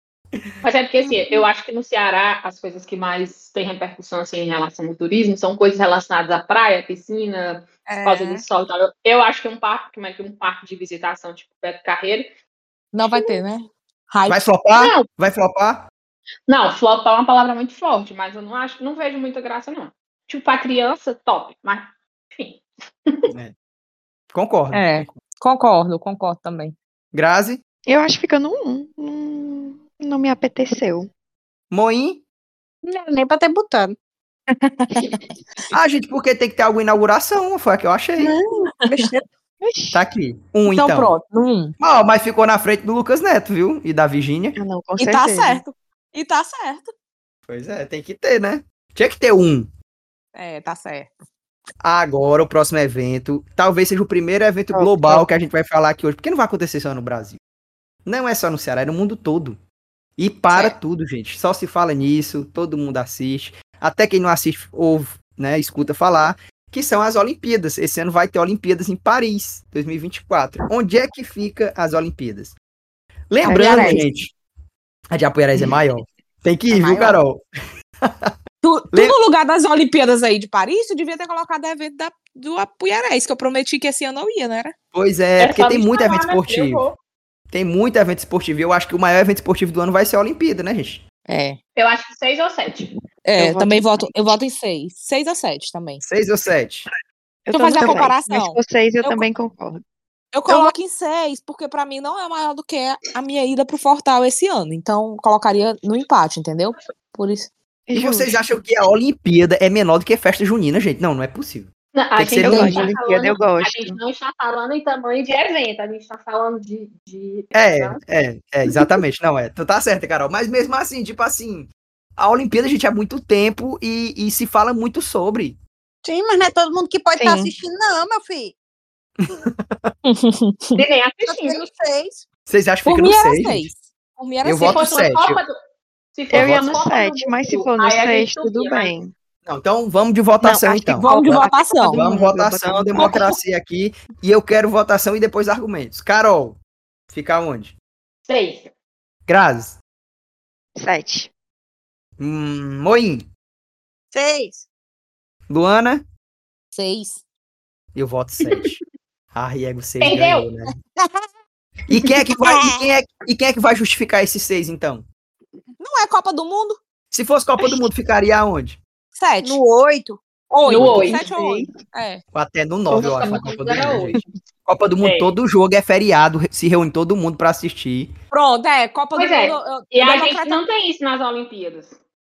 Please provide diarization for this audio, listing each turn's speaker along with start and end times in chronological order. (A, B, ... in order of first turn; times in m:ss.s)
0:00.6-0:12.3 A
0:07.9-0:08.4 B
0:12.9-0:14.4 B
0:14.3-0:15.9 C
0:14.8-0:15.1 A
0:16.5-0:23.2 A
0:24.3-0:25.2 C
0:24.7-0:26.8 B
0:27.1-0:27.6 C
0:27.9-0:31.1 D
0:31.7-0:32.2 C
0:32.8-0:34.0 E
0:34.5-0:35.2 B
0:35.7-0:38.3 C
0:38.2-0:39.2 E
0:39.6-0:40.0 D
0:39.9-0:41.1 C
0:40.7-0:41.8 B
0:41.8-0:44.6 C
0:44.6-0:45.6 D
0:45.0-0:46.9 B
0:47.5-0:49.7 C
0:50.4-0:51.2 B
0:51.8-0:57.4 C
0:54.7-0:55.3 D
0:58.0-0:59.6 C
1:00.2-1:12.6 C
1:13.3-1:14.3 C
1:13.4-1:14.0 D
1:13.5-1:14.0 B
1:15.1-1:17.4 C
1:16.8-1:17.1 B
1:18.0-1:18.3 C
1:18.6-1:24.8 B
1:24.9-1:26.8 C
1:25.4-1:27.0 A
1:27.5-1:31.0 C
1:31.3-1:31.6 B
1:31.8-1:32.9 A
1:33.2-1:36.0 B
1:33.4-1:34.4 D
1:36.0-1:36.9 C
1:37.5-1:39.8 D
1:37.5-1:39.3 B
1:40.3-1:47.5 B
1:47.9-1:48.4 D
1:47.9-1:52.9 C
1:52.0-1:58.0 A
1:52.4-1:54.0 D
1:57.5-2:05.6 C
2:06.0-2:08.6 E
2:07.2-2:07.5 D
2:09.2-2:10.0 C
2:10.0-2:10.8 B
2:10.8-2:11.7 A
2:11.3-2:12.3 E
2:12.5-2:13.7 C
2:12.9-2:15.0 B
2:14.4-2:15.4 C
2:14.6-2:15.5 A
2:16.1-2:18.9 A
2:16.3-2:19.1 D
2:16.3-2:16.7 C
2:19.5-2:26.6 C
2:20.4-2:23.3 D
2:21.0-2:22.0 B
2:23.0-2:23.4 B
2:27.1-2:27.8 C
2:28.2-2:28.7 A
2:29.3-2:29.8 C
2:30.8-2:31.3 D
2:32.2-2:33.3 C
2:34.1-2:34.7 E
2:35.5-2:36.0 C
2:36.7-2:37.2 B
2:37.9-2:38.8 C
2:39.3-2:40.7 C
2:40.0-2:40.5 A
2:41.9-2:45.1 C
2:45.8-2:46.8 B
2:47.1-2:48.8 C
2:49.2-2:49.6 B
2:49.4-2:50.2 E
2:50.5-2:52.2 B
2:50.7-2:51.2 A
2:50.8-2:51.8 D
2:52.3-2:58.2 C
2:52.9-2:54.3 A
2:55.0-2:55.4 A
2:58.3-3:00.6 B
2:59.2-3:02.0 A